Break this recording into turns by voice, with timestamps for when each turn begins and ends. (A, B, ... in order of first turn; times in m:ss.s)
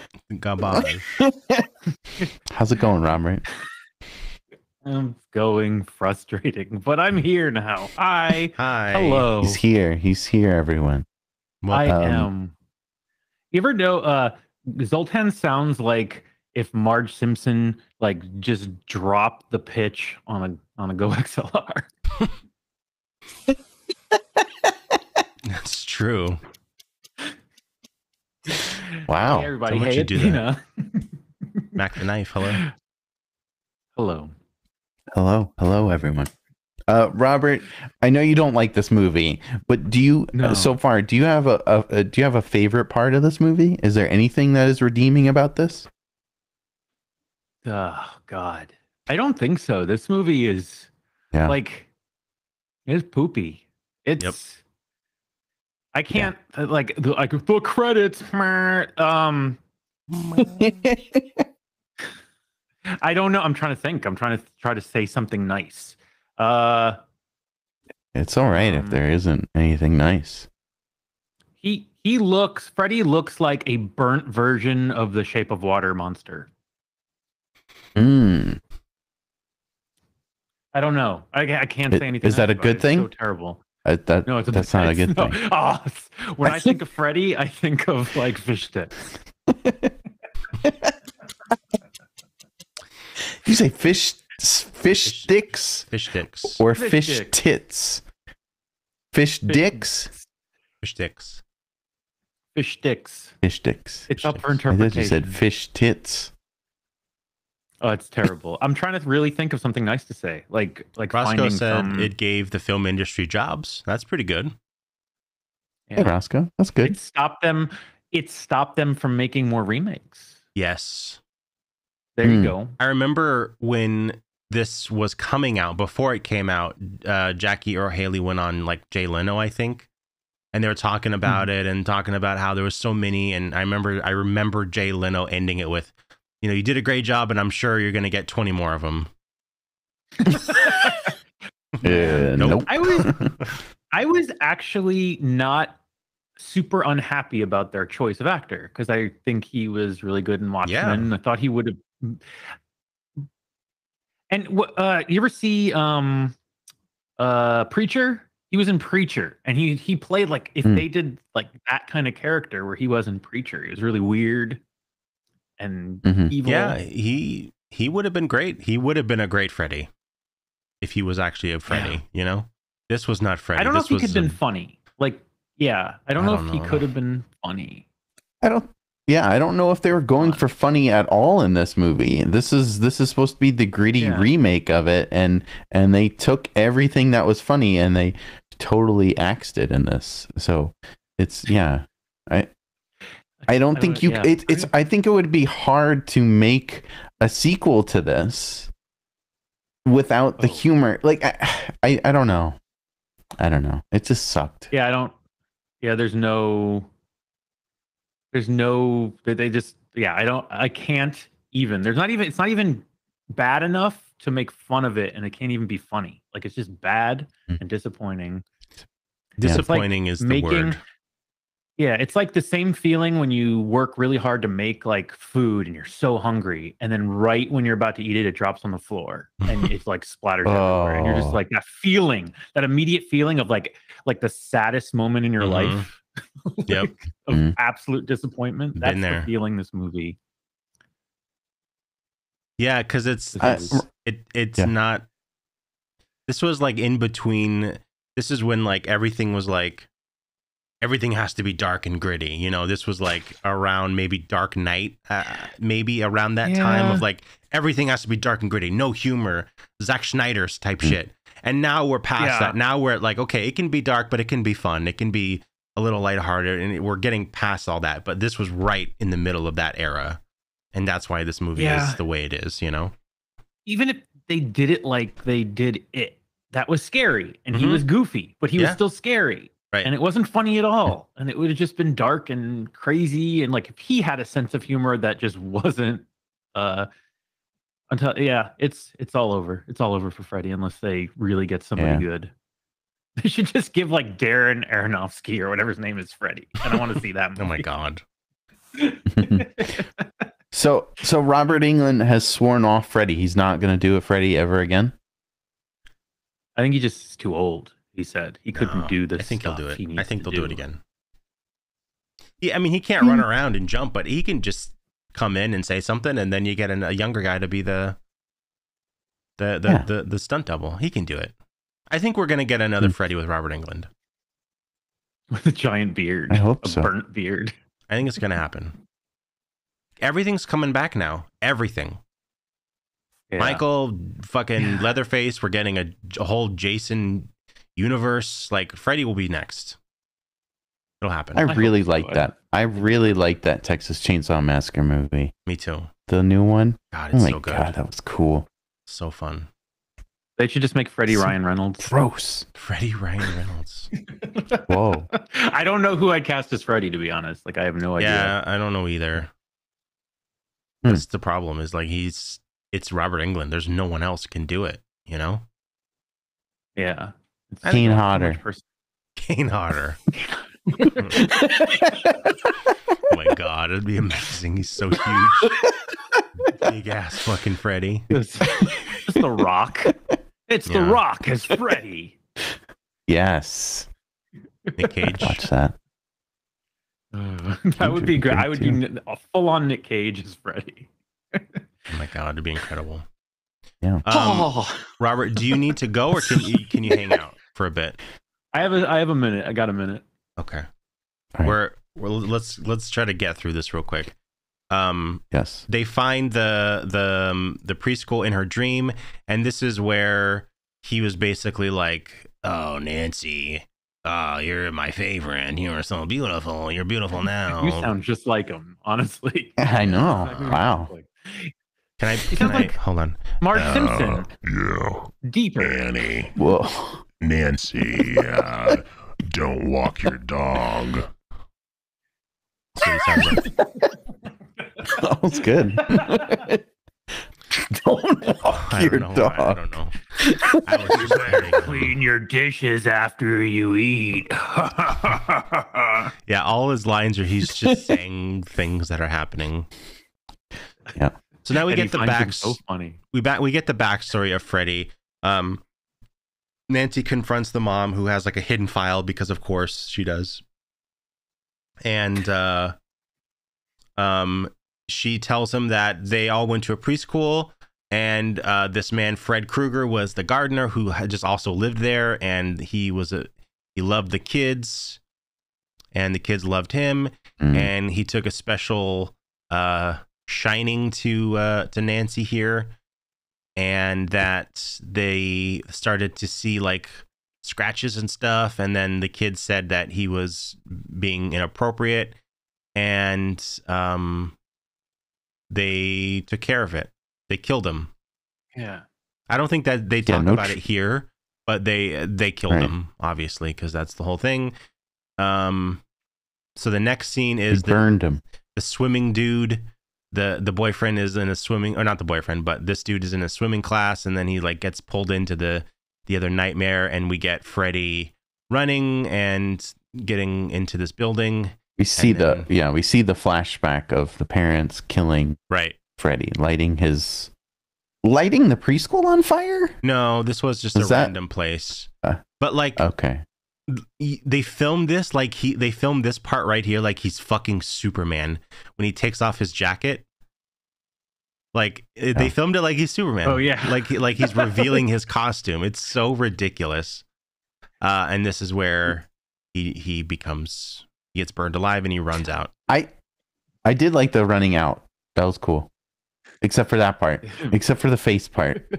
0:00.3-0:01.1 A
0:00.7-0:01.6 B
0:02.5-0:03.4 B
0:04.8-0:09.6 C
0:08.6-0:09.3 A
0:09.4-0:11.0 B
0:11.6-0:11.9 A
0:11.7-0:12.5 C
0:11.9-0:12.3 B
0:13.5-0:21.9 C
0:25.5-0:26.4 A
0:28.6-0:31.1 C
0:29.1-0:29.5 B
0:29.6-0:30.4 A
0:31.8-0:32.6 A
0:34.0-0:34.3 C
0:35.1-0:36.3 B
0:36.9-0:45.9 B
0:40.4-0:40.7 C
0:47.6-0:50.9 C
0:51.5-0:51.9 C
0:52.9-0:54.6 C
0:55.9-0:59.6 C
1:00.4-1:01.3 B
1:02.9-1:07.0 C
1:08.1-1:10.5 B
1:08.6-1:09.0 C
1:11.6-1:16.5 C
1:18.0-1:18.6 B
1:20.7-1:23.6 C
1:21.9-1:23.1 B
1:23.8-1:25.4 B
1:24.2-1:28.9 C
1:26.4-1:26.7 B
1:29.5-1:29.9 B
1:30.6-1:30.9 B
1:33.4-1:35.8 B
1:35.0-1:36.6 A
1:36.5-1:38.0 B
1:36.7-1:37.3 C
1:39.1-1:40.1 B
1:39.5-1:39.8 C
1:40.8-1:41.4 A
1:42.6-1:43.3 C
1:43.4-1:44.1 B
1:44.1-1:45.3 C
1:44.7-1:46.3 B
1:47.8-1:52.1 C
1:51.1-1:54.5 A
1:56.0-1:57.0 B
1:56.8-2:00.3 C
2:00.6-2:01.2 A
2:02.1-2:02.8 C
2:02.2-2:02.5 B
2:02.8-2:09.9 A
2:10.5-2:19.1 A
2:20.2-2:21.1 C
2:21.8-2:23.1 A
2:21.8-2:23.2 B
2:21.8-2:23.2 C
2:23.9-2:25.8 C
2:26.4-2:32.2 C
2:30.6-2:31.1 A
2:34.3-2:36.4 C
2:37.2-2:44.6 C
2:45.6-2:46.8 C
2:46.0-2:46.3 B
2:46.4-2:49.9 A
2:50.8-2:54.4 A
2:51.7-2:52.0 C
2:53.6-2:57.8 C
2:56.2-2:56.8 A
2:58.4-3:12.5 B
3:00.1-3:00.4 C
3:04.0-3:04.3 C
3:13.5-3:18.7 B
3:13.7-3:14.7 C
3:19.8-3:22.6 B
3:23.4-3:24.7 B
3:24.7-3:25.1 C
3:25.8-3:26.9 C
3:28.3-3:38.4 C
3:39.4-3:40.8 A
3:39.4-3:40.8 C
3:41.8-4:00.2 C
3:50.4-3:51.4 B
3:55.4-3:55.8 A
3:57.3-3:57.6 B
3:58.8-3:59.3 A
4:02.6-4:05.0 A
4:03.4-4:03.8 C
4:03.4-4:03.8 B
4:06.3-4:09.9 A
4:10.8-4:30.2 A
4:16.4-4:17.0 C
4:22.2-4:22.6 C
4:30.7-4:32.9 A
4:31.6-4:32.0 C
4:33.6-4:46.9 C
4:37.5-4:37.8 A
4:47.9-4:52.3 C
4:51.8-4:52.0 B
4:53.2-4:57.6 C
4:57.4-4:58.0 A
4:58.8-5:00.0 C
4:59.1-4:59.5 B
5:00.5-5:04.9 B
5:06.6-5:10.6 C
5:08.5-5:10.8 A
5:12.4-5:18.0 A
5:19.4-5:21.3 A
5:21.9-5:23.9 A
5:25.3-5:27.5 C
5:26.3-5:26.9 B
5:27.9-5:28.7 A
5:30.0-5:32.0 A
5:33.3-5:33.6 C
5:33.4-5:39.8 A
5:34.6-5:34.8 C
5:41.0-5:41.5 A
5:41.3-5:45.3 B
5:41.4-5:42.3 C
5:45.4-5:45.9 A
5:46.1-5:48.5 B
5:46.9-5:47.8 A
5:48.9-5:49.5 A
5:50.4-5:51.8 C
5:51.1-5:52.4 B
5:52.5-5:53.9 A
5:54.1-5:58.3 C
5:54.7-5:55.1 B
5:58.0-5:59.3 A
6:00.8-6:05.4 A
6:06.8-6:08.6 C
6:07.6-6:08.4 B
6:09.2-6:10.0 A
6:10.2-6:11.6 C
6:11.3-6:12.0 B
6:13.0-6:15.6 A
6:16.4-6:18.1 A
6:18.1-6:19.9 C
6:18.6-6:19.2 B
6:20.5-6:22.2 C
6:20.7-6:21.0 A
6:23.1-6:23.9 B
6:24.8-6:25.4 A
6:25.2-6:25.8 B
6:27.1-6:31.6 C
6:27.8-6:28.8 B
6:31.9-6:33.0 A
6:34.0-6:38.0 A
6:34.1-6:34.9 C
6:38.5-6:40.0 C
6:40.4-6:40.7 A
6:41.4-6:44.1 A
6:44.7-6:57.9 A
6:45.3-6:45.6 B
6:57.6-7:01.5 C
6:59.6-7:00.9 B
7:02.0-7:03.4 A
7:02.3-7:02.8 C
7:03.4-7:04.3 C
7:03.5-7:06.3 D
7:05.2-7:05.8 C
7:06.4-7:07.0 B
7:07.2-7:11.1 D
7:12.8-7:13.4 A
7:14.9-7:16.6 B
7:15.8-7:16.4 C
7:17.5-7:20.6 B
7:18.5-7:19.9 A
7:20.5-7:26.1 C
7:20.6-7:22.0 A
7:26.3-7:29.7 A
7:31.4-7:32.6 A
7:31.6-7:33.0 C
7:33.1-7:35.6 A
7:36.7-7:40.4 A
7:41.8-7:42.7 A
7:44.0-7:55.0 A
7:55.9-8:02.7 A
7:57.4-7:57.7 B
8:03.6-8:12.2 A
8:12.7-8:14.3 A
8:15.5-8:17.9 A
8:18.5-8:18.8 C
8:19.3-8:24.5 A
8:20.0-8:20.6 B
8:25.2-8:25.8 A
8:26.6-8:27.8 A
8:27.5-8:28.2 B
8:28.5-8:42.5 A
8:41.8-8:45.4 B
8:45.5-8:45.8 A
8:46.0-8:47.3 B
8:48.0-8:49.7 B
8:49.8-8:51.9 A
8:50.7-8:51.1 B
8:52.4-8:52.8 A
8:52.8-8:53.2 B
8:53.7-9:00.0 A
9:01.5-9:07.0 A
9:03.2-9:04.8 C
9:07.8-9:12.5 A
9:13.6-9:15.7 B
9:16.4-9:18.6 B